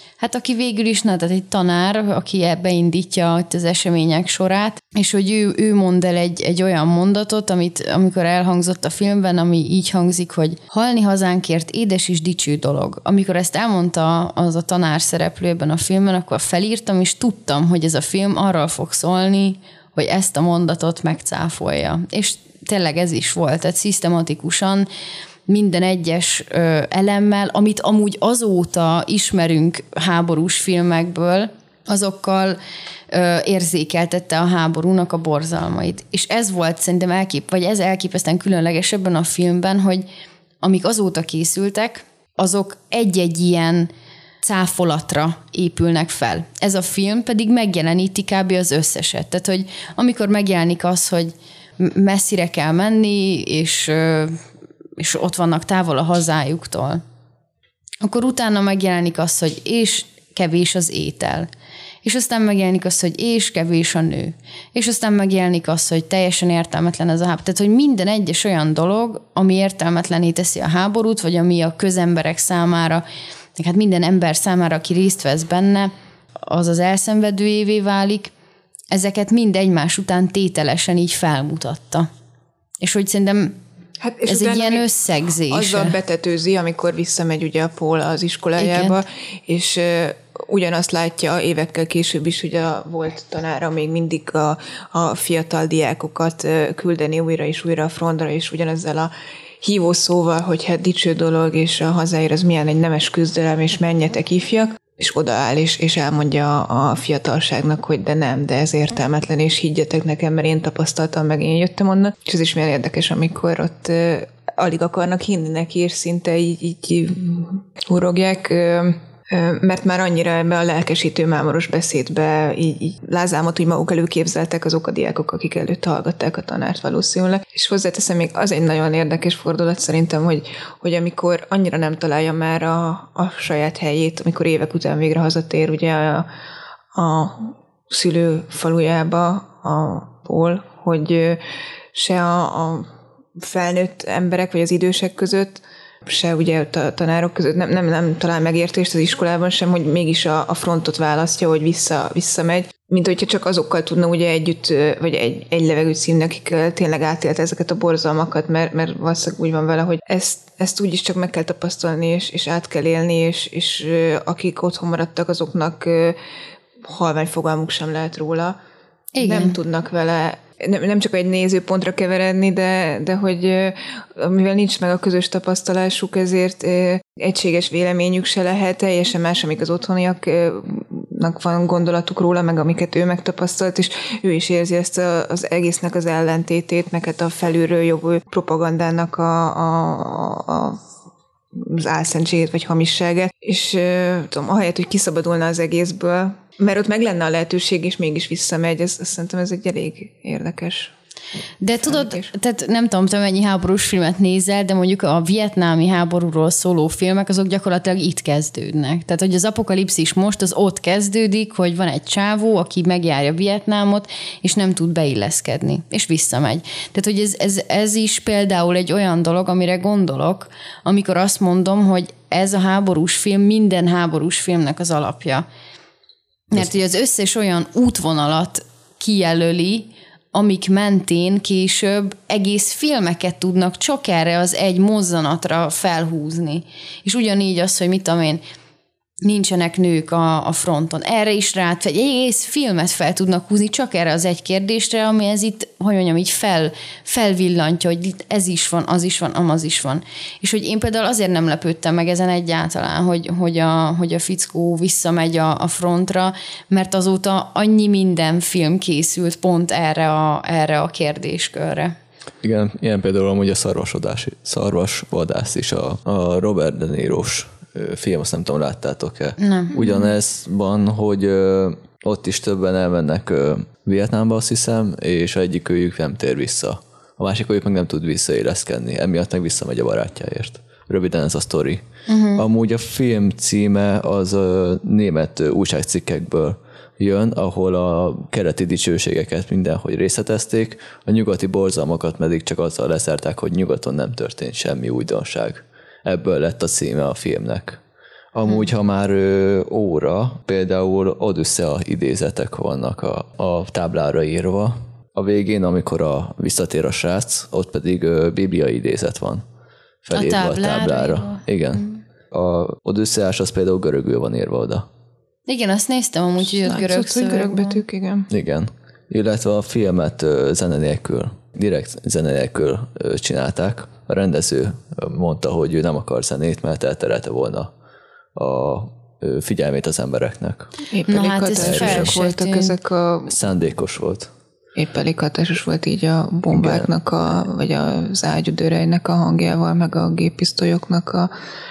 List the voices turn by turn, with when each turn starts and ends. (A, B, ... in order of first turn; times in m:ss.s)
0:00.2-0:24.9 A
0:25.5-0:32.6 A
0:33.1-0:40.0 A
0:40.6-0:43.9 A
0:44.4-0:54.4 A
0:55.0-0:57.0 A
0:58.0-1:01.5 A
1:02.0-1:13.0 A
1:13.6-1:15.9 A
1:16.4-1:18.3 A
1:18.9-1:22.1 A
1:22.8-1:23.6 A
1:24.0-1:24.9 B
1:24.3-1:26.0 A
1:25.5-2:16.3 B
1:28.6-1:29.0 A
2:17.0-2:21.4 B
2:21.9-2:46.2 B
2:46.8-2:48.6 B
2:49.2-2:49.6 A
2:49.2-3:10.8 B
3:11.5-3:20.9 B
3:21.6-3:45.4 A
3:21.8-3:22.3 B
3:46.5-3:58.4 A
3:59.2-4:22.0 A
4:22.4-4:41.8 C
4:29.4-4:29.8 A
4:42.1-4:42.4 A
4:42.4-4:57.8 C
4:58.3-5:09.4 C
5:10.0-5:14.8 C
5:10.1-5:12.0 A
5:15.5-5:17.8 A
5:16.4-5:18.3 B
5:18.3-5:27.7 C
5:28.4-5:30.7 C
5:30.9-5:33.4 B
5:31.1-5:32.8 A
5:31.6-5:32.1 C
5:33.3-5:34.3 C
5:34.8-5:41.3 B
5:36.5-5:36.9 C